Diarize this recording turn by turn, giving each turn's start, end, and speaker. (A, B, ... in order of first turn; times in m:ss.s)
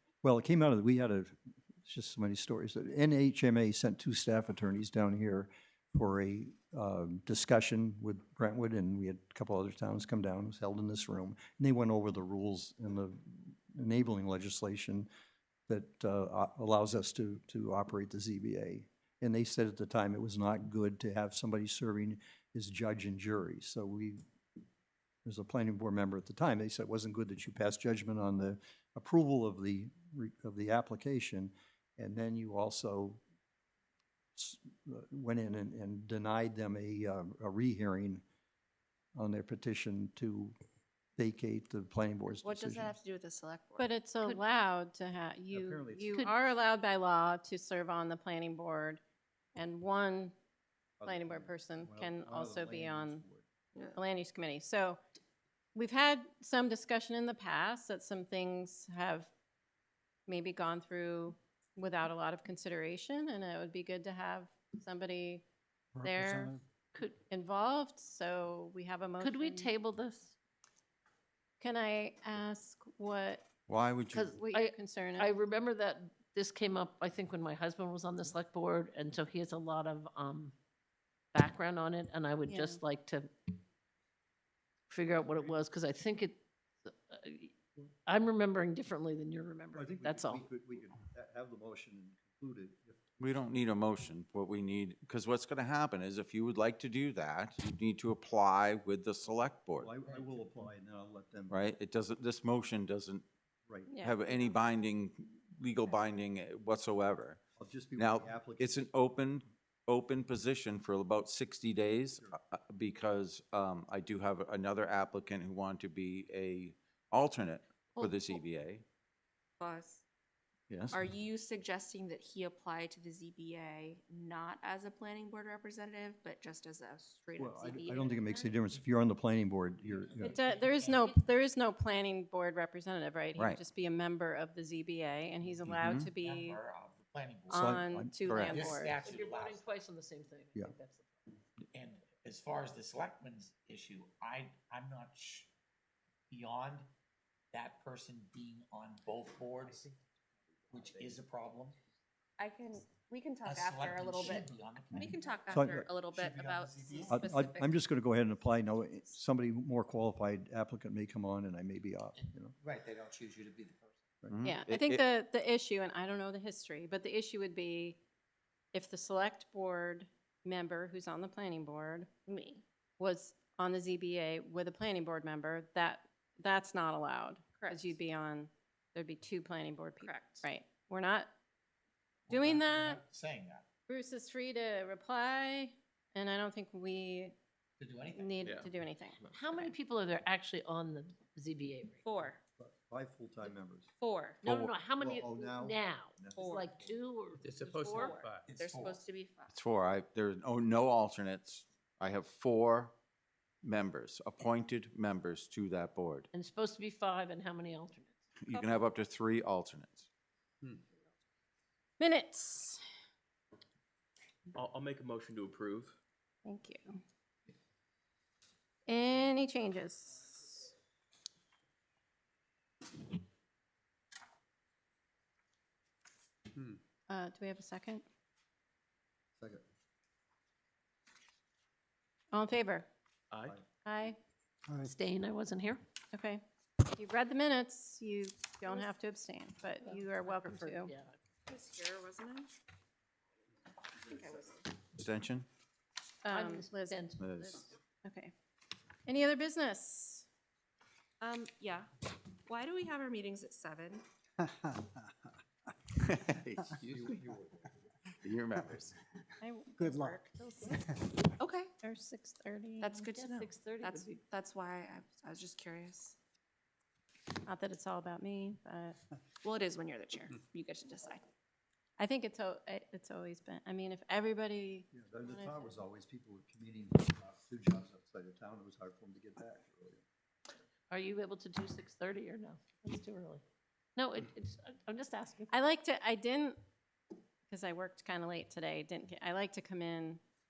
0:00.2-0:15.1 A
0:15.7-0:24.2 A
0:25.2-0:33.2 A
0:34.4-0:38.2 A
0:39.2-0:40.6 A
0:41.2-0:43.0 A
0:42.4-0:43.9 B
0:43.8-0:49.0 C
0:45.5-0:46.2 A
0:49.6-0:50.3 C
0:51.0-0:53.4 A
0:51.0-0:53.2 C
0:53.9-0:55.0 C
0:55.8-0:59.3 C
1:00.3-1:05.4 C
1:06.0-1:09.7 C
1:09.2-1:10.3 D
1:11.6-1:13.4 C
1:13.7-1:14.4 E
1:14.1-1:20.5 D
1:14.3-1:15.3 C
1:21.3-1:23.3 D
1:22.5-1:22.8 C
1:24.9-1:30.4 D
1:29.7-1:33.0 A
1:33.2-1:39.9 E
1:39.8-1:41.6 A
1:41.5-1:43.3 E
1:43.7-1:44.0 A
1:43.9-1:44.6 C
1:44.0-1:47.4 E
1:47.6-1:48.8 A
1:48.0-1:58.8 E
1:59.6-2:00.0 B
2:00.7-2:01.0 A
2:00.9-2:08.5 B
2:07.4-2:10.4 A
2:09.8-2:11.2 F
2:10.2-2:16.6 C
2:13.4-2:13.6 E
2:15.7-2:16.1 E
2:16.1-2:19.6 F
2:17.5-2:19.0 C
2:17.5-2:18.3 A
2:18.2-2:18.7 E
2:19.0-2:21.2 D
2:21.7-2:25.5 F
2:26.3-2:26.9 F
2:27.5-2:29.9 F
2:30.7-2:31.8 F
2:32.4-2:37.8 B
2:33.4-2:35.2 F
2:35.5-2:35.9 A
2:35.9-2:37.3 F
2:37.1-2:42.5 A
2:42.2-2:44.0 F
2:44.3-2:45.0 E
2:44.4-2:48.0 C
2:48.7-2:52.1 C
2:52.3-2:52.6 B
2:53.0-3:01.3 C
2:57.6-2:57.8 B
3:00.0-3:00.5 B
3:02.3-3:03.7 F
3:02.3-3:03.0 C
3:03.9-3:07.4 C
3:07.8-3:08.7 F
3:08.1-3:09.7 C
3:09.3-3:12.0 D
3:12.0-3:12.4 B
3:12.6-3:13.9 A
3:14.0-3:14.4 B
3:14.4-3:18.2 D
3:14.5-3:16.5 A
3:16.4-3:16.7 B
3:17.4-3:18.5 G
3:17.6-3:19.6 B
3:18.4-3:19.0 F
3:19.5-3:23.0 E
3:23.6-3:26.3 E
3:26.3-3:28.2 D
3:28.4-3:30.1 E
3:28.5-3:28.9 B
3:32.0-3:32.8 C
3:34.6-3:35.9 G
3:36.4-3:37.0 C
3:38.9-3:40.7 C
3:47.1-3:48.0 C
3:49.4-3:49.6 A
3:52.3-3:52.9 C
3:53.8-3:54.2 C
3:54.8-3:55.8 D
3:56.1-4:00.9 C
3:59.9-4:01.2 D
4:01.5-4:02.5 B
4:04.0-4:04.7 B
4:05.0-4:05.5 E
4:06.2-4:07.0 C
4:06.3-4:07.7 D
4:07.2-4:07.6 E
4:08.0-4:08.3 C
4:09.1-4:10.3 C
4:11.2-4:11.9 B
4:12.5-4:14.0 B
4:16.0-4:17.4 E
4:18.1-4:18.9 E
4:19.4-4:20.8 C
4:21.4-4:21.7 B
4:21.8-4:22.9 C
4:22.8-4:26.2 B
4:22.9-4:24.2 D
4:27.5-4:29.0 C
4:29.4-4:31.2 B
4:32.0-4:35.7 C
4:34.9-4:40.0 A
4:40.9-4:43.4 D
4:44.0-4:45.5 D
4:45.5-4:46.6 C
4:47.5-4:50.2 C